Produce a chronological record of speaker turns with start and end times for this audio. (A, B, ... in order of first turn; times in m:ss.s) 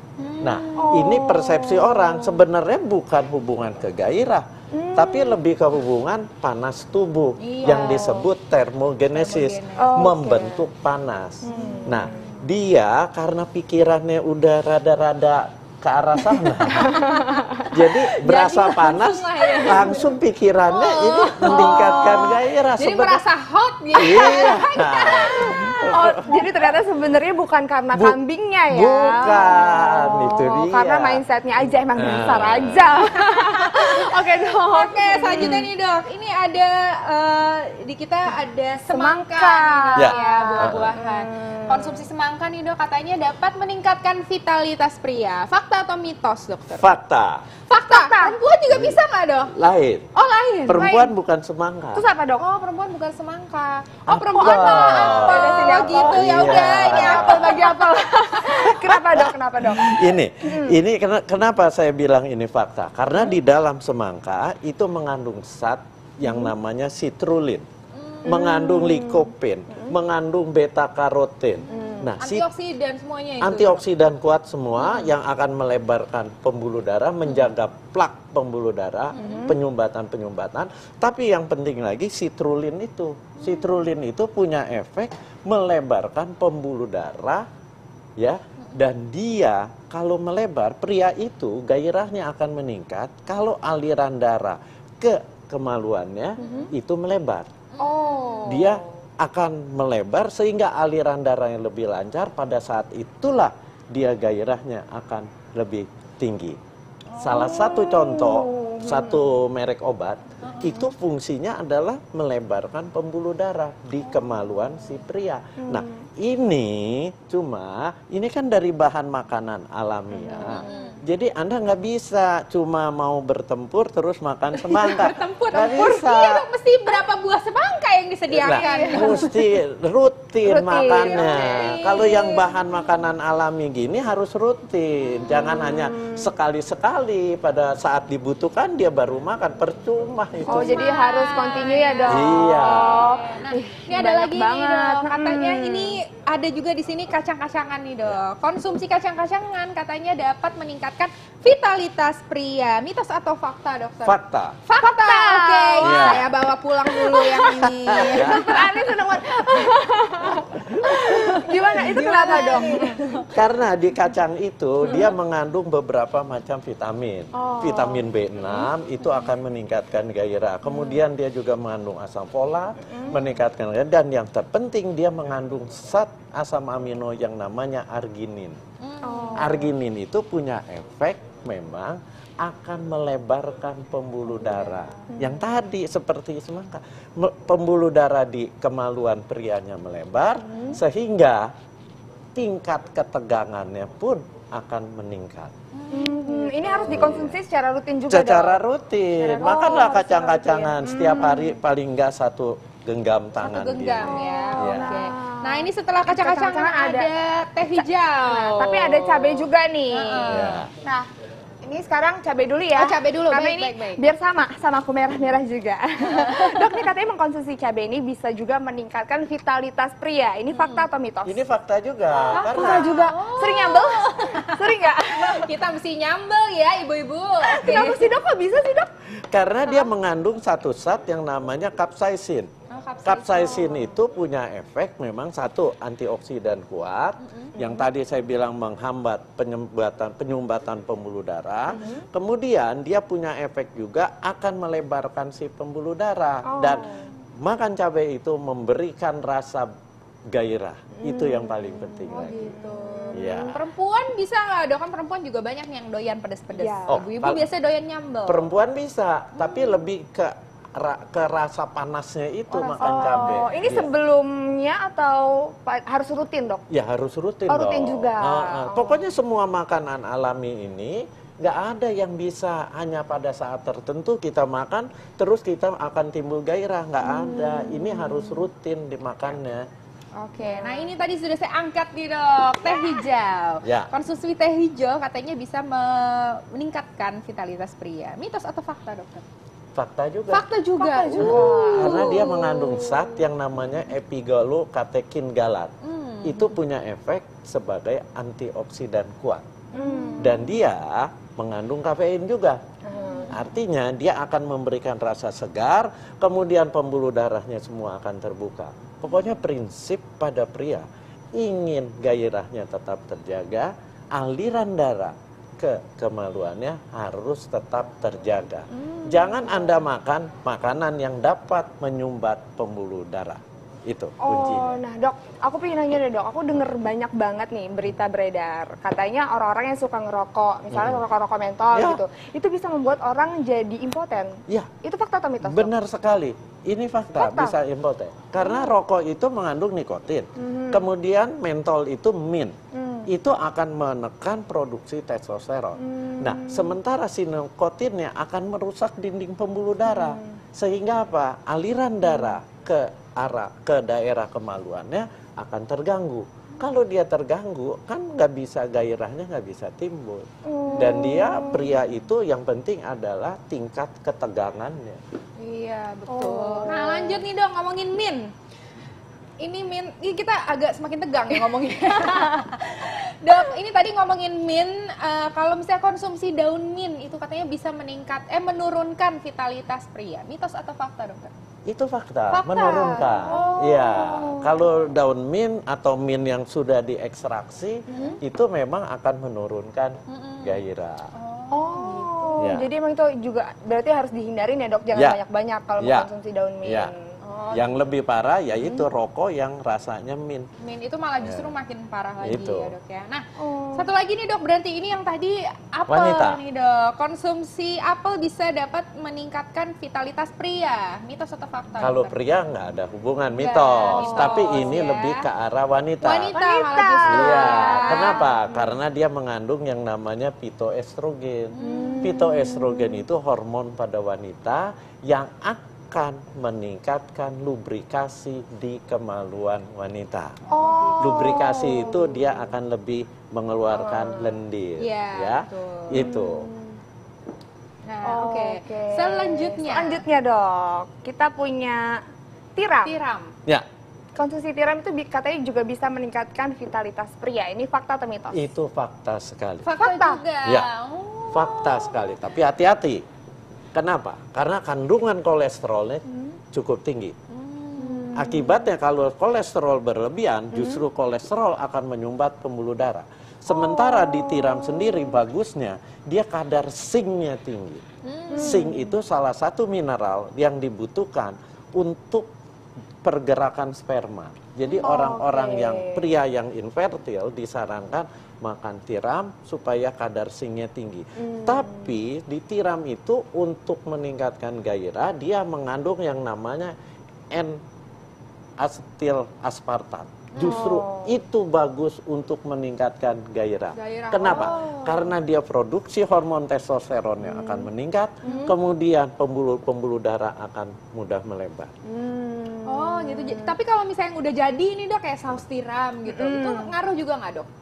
0:00.2-0:01.2 A
0:00.4-0:17.0 B
0:00.8-0:02.4 C
0:04.7-0:05.4 C
0:07.4-0:08.2 A
0:07.6-0:08.2 C
0:09.1-0:10.0 A
0:09.8-0:10.7 C
0:11.4-0:12.4 C
0:11.6-0:12.0 A
0:16.3-0:17.4 A
0:16.7-0:17.7 C
0:17.7-0:23.2 B
0:18.0-0:20.1 A
0:19.5-0:20.0 C
0:20.6-0:25.5 A
0:21.4-0:22.1 C
0:23.9-0:26.3 B
0:24.2-0:35.6 C
0:28.7-0:31.2 B
0:31.9-0:32.9 B
0:33.1-0:47.0 A
0:35.4-0:35.6 B
0:38.9-0:42.0 C
0:40.0-0:40.9 B
0:46.7-0:47.4 B
0:47.7-0:49.5 A
0:47.9-0:48.4 C
0:48.7-0:49.0 B
0:49.5-0:50.1 B
0:50.1-0:51.1 A
0:50.7-0:52.0 B
0:51.9-0:52.4 C
0:52.4-0:58.5 A
0:54.1-0:57.7 B
0:54.4-1:00.8 C
0:58.5-1:07.7 B
1:06.2-1:06.5 C
1:07.9-1:08.3 A
1:08.2-1:09.9 C
1:08.2-1:12.4 B
1:11.7-1:12.1 C
1:11.7-1:13.8 A
1:13.4-1:27.4 B
1:14.8-1:15.1 A
1:19.1-1:19.5 A
1:19.2-1:19.6 C
1:23.4-1:23.6 A
1:28.2-1:37.5 B
1:36.4-1:36.7 C
1:37.7-1:38.7 A
1:37.8-1:38.8 C
1:38.5-1:46.6 B
1:47.1-1:47.6 A
1:47.2-2:06.5 B
1:47.4-1:49.3 C
1:50.4-1:50.8 A
1:54.0-1:54.9 A
1:55.6-1:56.0 C
2:00.2-2:00.8 C
2:00.3-2:01.0 A
2:04.5-2:09.4 A
2:08.3-2:20.9 B
2:08.5-2:09.3 C
2:10.4-2:11.6 C
2:10.9-2:12.6 A
2:15.3-2:16.3 C
2:20.5-2:26.0 C
2:20.5-2:38.8 A
2:22.1-2:23.1 B
2:34.0-2:34.6 B
2:34.8-2:36.2 C
2:35.8-2:36.2 B
2:36.8-2:43.0 C
2:37.5-2:38.6 B
2:40.8-2:41.4 B
2:41.4-2:43.3 A
2:43.3-2:58.6 B
2:47.3-2:48.2 C
2:52.8-2:53.2 C
2:58.8-2:59.5 A
2:59.0-2:59.6 C
2:59.3-3:11.5 B
3:10.4-3:10.8 C
3:12.3-3:15.5 B
3:15.7-3:17.1 A
3:15.9-3:21.6 C
3:16.9-3:17.4 B
3:18.1-3:25.0 B
3:23.4-3:30.6 A
3:24.0-3:27.1 C
3:27.7-3:31.1 C
3:30.3-3:30.7 B
3:31.6-3:41.4 C
3:32.7-3:34.0 A
3:36.0-3:36.9 A
3:40.5-3:40.8 A
3:41.2-3:43.1 B
3:42.3-3:45.5 C
3:42.3-3:48.1 A
3:47.4-3:48.9 C
3:49.3-3:52.5 B
3:52.7-3:53.9 A
3:53.0-4:06.9 B
3:57.2-3:57.5 A
3:57.6-3:57.8 C
4:01.7-4:02.0 C
4:06.4-4:07.1 C
4:07.4-4:09.7 B
4:10.3-4:12.6 B
4:10.9-4:13.6 C
4:12.1-4:18.5 A
4:13.1-4:13.6 B
4:16.5-4:17.0 C
4:16.9-4:17.4 B
4:18.2-4:23.9 B
4:19.3-4:19.8 A
4:22.5-4:26.6 C
4:22.8-4:23.4 A
4:26.7-4:39.6 B
4:27.5-4:29.1 C
4:37.0-4:38.4 C
4:40.2-4:49.2 A
4:40.4-4:40.9 C
4:42.7-4:43.0 C
4:43.6-4:43.9 B
4:49.7-4:50.4 B
4:50.3-4:53.2 A
4:50.8-4:52.3 C
4:51.2-4:55.7 B
4:55.8-4:56.5 A
4:56.2-4:59.4 B
4:59.7-5:00.5 C
4:59.8-5:00.3 A
5:00.2-5:02.6 B
5:02.8-5:03.4 C
5:03.3-5:24.8 B
5:19.0-5:19.8 C
5:24.2-5:35.7 C
5:30.7-5:31.0 B
5:31.7-5:32.0 B
5:35.4-5:42.5 B
5:37.1-5:37.6 C
5:38.4-5:38.7 C
5:40.4-5:40.8 C
5:42.7-5:43.1 C
5:43.1-6:05.0 B
5:45.8-5:46.7 C
5:49.9-5:50.3 C
6:00.4-6:01.8 C
6:05.4-6:08.3 A
6:06.1-6:07.2 C
6:09.4-6:21.3 A
6:21.6-6:31.1 B
6:22.3-6:24.2 A
6:23.2-6:24.6 C
6:27.9-6:28.2 A
6:27.9-6:28.2 C
6:30.1-6:30.6 A
6:31.1-6:32.5 A
6:31.5-6:37.1 C
6:32.4-6:32.7 B
6:35.8-6:36.1 B
6:36.6-6:36.9 B
6:37.2-6:37.9 A
6:37.5-6:40.5 B
6:38.6-6:38.9 C
6:40.6-6:52.1 A
6:41.2-6:41.5 B
6:42.2-6:42.7 B
6:43.4-6:43.9 C
6:45.9-6:46.4 B
6:51.8-6:56.3 B
6:53.3-6:55.2 A
6:53.8-6:54.8 C
6:56.0-6:58.3 A
6:56.3-6:58.7 C
6:57.0-7:10.4 B
7:01.5-7:02.3 A
7:01.6-7:03.0 C
7:10.4-7:11.4 A
7:10.5-7:12.4 C
7:11.0-7:16.5 B
7:13.7-7:14.4 C
7:14.8-7:16.1 A
7:15.9-7:16.8 C
7:17.8-7:20.0 A
7:18.0-7:22.0 C
7:22.6-7:23.0 C
7:22.8-7:23.3 A
7:24.1-7:28.5 C
7:28.3-7:29.7 B
7:29.6-7:32.2 A
7:29.8-7:30.2 C
7:31.3-7:33.0 B
7:33.7-7:37.2 B
7:37.3-7:38.1 A
7:37.8-7:38.6 C
7:38.1-7:47.8 B
7:40.5-7:40.8 C
7:43.5-7:45.2 C
7:48.0-7:48.7 A
7:48.3-7:49.0 C
7:48.3-7:52.3 B
7:53.0-8:06.7 B
7:54.7-7:56.1 C
8:01.2-8:02.0 C
8:07.3-8:07.6 B
8:08.6-8:21.7 B
8:10.3-8:10.7 A
8:10.4-8:11.2 C
8:13.7-8:15.0 A
8:14.2-8:14.8 C
8:17.2-8:17.7 C
8:18.2-8:18.5 C
8:21.8-8:23.6 C
8:22.6-8:27.5 A
8:26.0-8:26.7 C